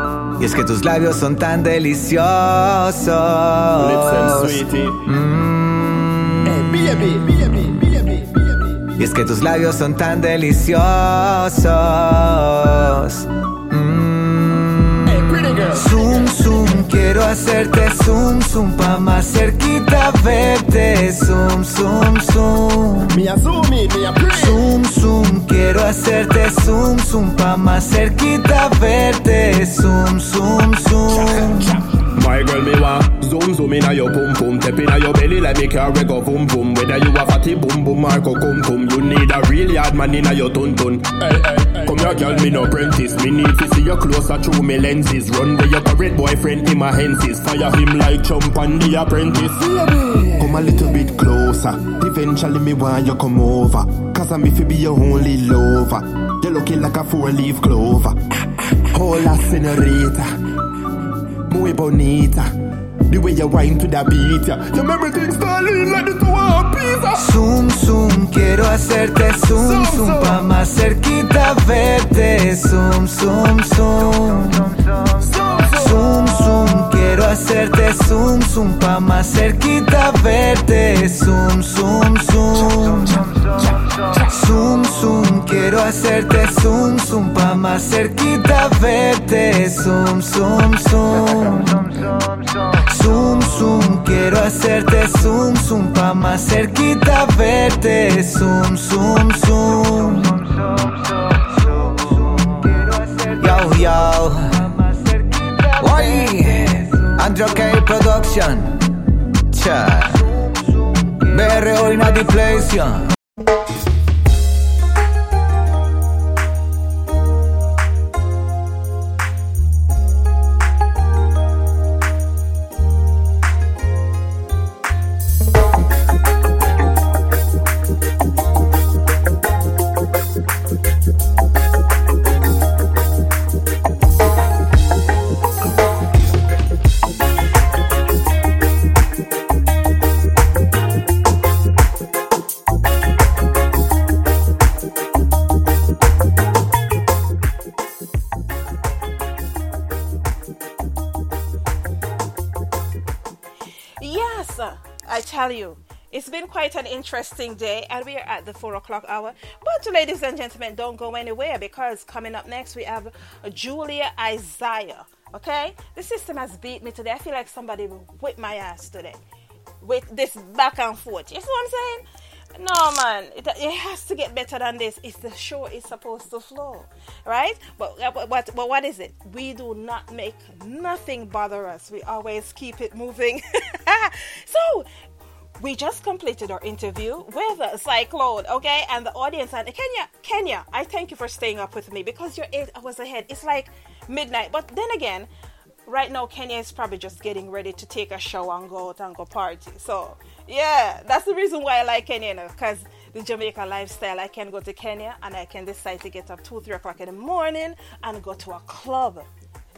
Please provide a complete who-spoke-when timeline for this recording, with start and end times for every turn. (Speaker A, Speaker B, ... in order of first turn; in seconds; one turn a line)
Speaker A: 0.4-7.8
Speaker B: 3.8-5.0
Speaker B: 6.5-8.8
Speaker A: 8.9-23.2
Speaker B: 15.1-16.7
Speaker B: 23.1-24.7
Speaker A: 24.3-31.7
Speaker B: 31.1-60.3
Speaker B: 61.5-62.5
Speaker B: 63.1-67.3
Speaker A: 67.1-74.7
Speaker B: 69.5-70.4
Speaker B: 75.2-76.1
Speaker A: 75.7-83.2
Speaker B: 82.5-84.4
Speaker A: 84.3-91.8
Speaker A: 92.8-108.9
Speaker A: 109.5-113.1
Speaker C: 154.0-169.2
Speaker C: 169.8-172.0
Speaker C: 172.6-184.9
Speaker C: 185.6-195.3
Speaker C: 195.9-209.3